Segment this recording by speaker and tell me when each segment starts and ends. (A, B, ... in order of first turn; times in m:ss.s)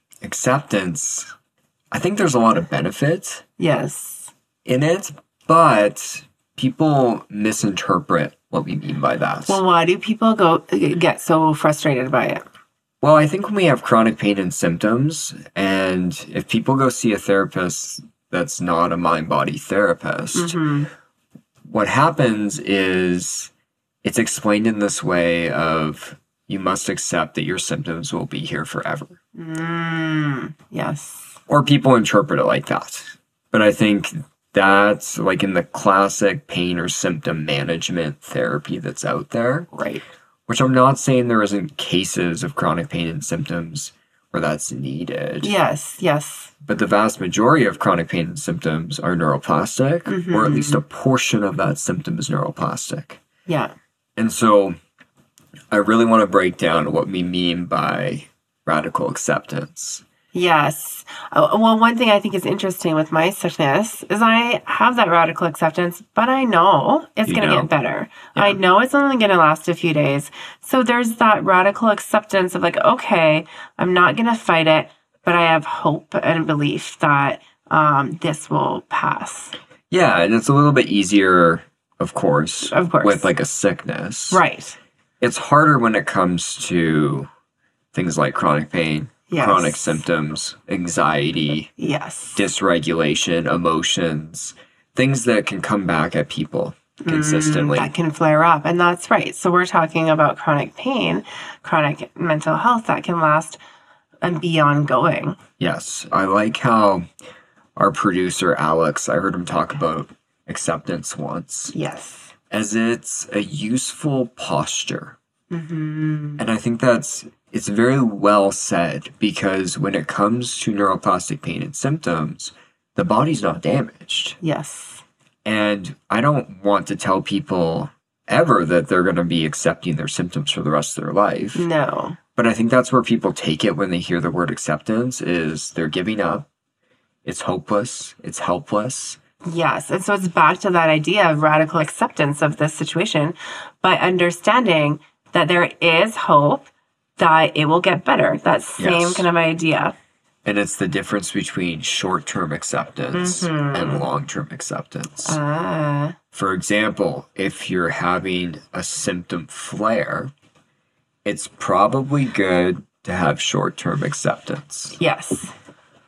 0:00.2-0:01.3 A
0:01.9-0:03.4 A
0:03.6-0:04.3 B
0:04.6-0:09.6 A
0:09.4-0:12.4 B
0:13.0-0:20.6 A
0:20.3-0:20.9 B
0:21.6-0:23.5 A
0:24.0-0:29.2 A
0:29.3-0:31.4 B
0:31.5-0:39.7 A
0:39.7-0:40.0 B
0:40.5-0:45.6 A
0:45.4-0:46.5 B
0:46.6-0:53.2 A
0:50.1-0:50.8 B
0:53.4-0:53.7 B
0:54.2-0:54.8 A
0:55.7-1:00.0 A
1:00.3-1:19.5 B
1:07.2-1:07.7 A
1:19.9-1:24.4 A
1:22.6-1:23.3 B
1:24.3-1:24.8 B
1:25.2-1:27.3 A
1:27.9-1:31.7 A
1:29.3-1:30.0 B
1:31.8-1:32.5 B
1:32.4-1:37.9 A
1:37.0-1:43.6 B
1:44.2-1:45.4 B
1:45.6-1:47.1 A
1:47.8-1:51.7 A
1:51.7-1:52.3 B
1:52.5-1:55.2 A
1:55.5-1:56.5 B
1:56.4-2:04.4 A
2:04.4-2:05.0 B
2:05.4-2:11.7 A
2:11.5-2:12.2 B
2:12.4-2:16.5 A
2:17.2-2:19.2 A
2:19.4-2:29.9 B
2:28.8-2:29.3 A
2:30.4-2:35.4 A
2:33.1-2:34.1 B
2:35.2-2:36.2 B
2:36.3-2:40.3 A
2:41.2-2:45.0 A
2:45.0-2:45.5 B